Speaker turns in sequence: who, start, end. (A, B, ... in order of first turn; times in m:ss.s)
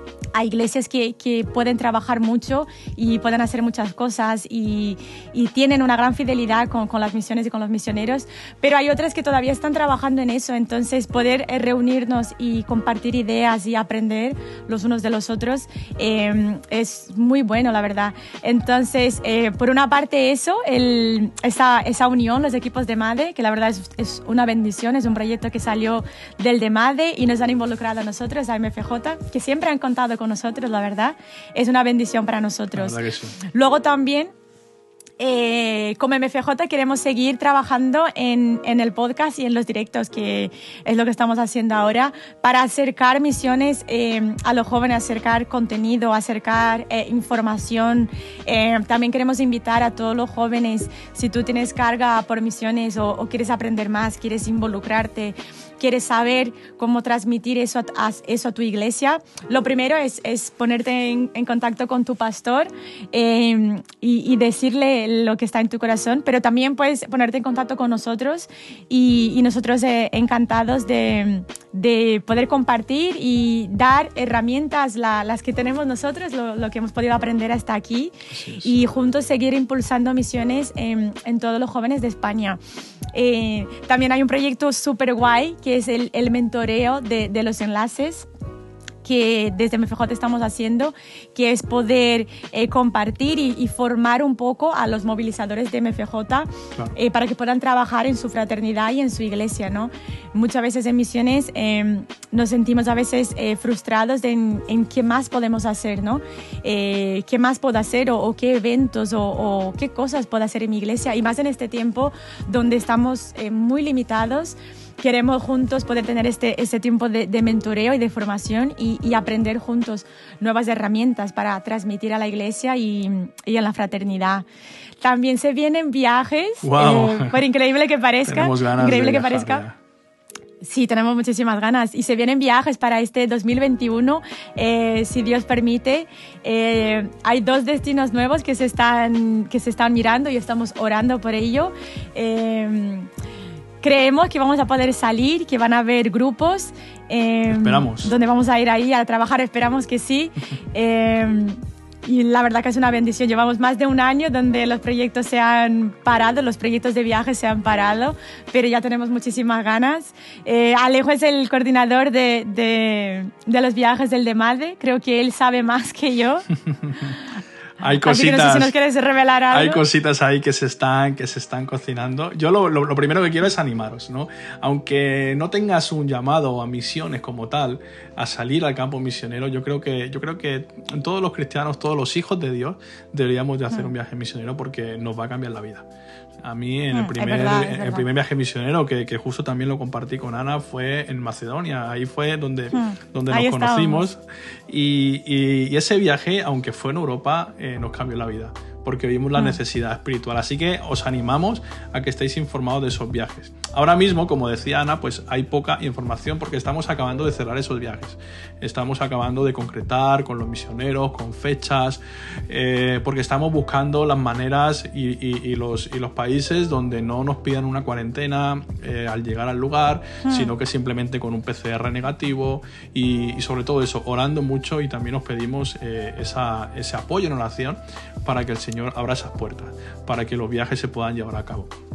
0:00.3-0:34.3 A
0:32.8-0:33.4 B
0:35.2-1:22.6 A
1:18.3-1:18.8 B
1:23.1-1:28.3 A
1:29.0-2:04.4 A
2:05.0-2:09.6 A
2:06.6-2:07.4 B
2:08.3-2:09.8 B
2:10.6-2:23.1 A
2:23.8-2:46.5 A
2:27.5-2:28.1 B
2:46.7-2:47.2 B
2:47.8-2:48.7 B
2:47.8-2:49.8 A
2:49.5-3:05.9 B
3:06.4-3:51.7 B
3:06.9-3:08.1 A
3:12.7-3:14.1 A
3:40.2-3:40.5 A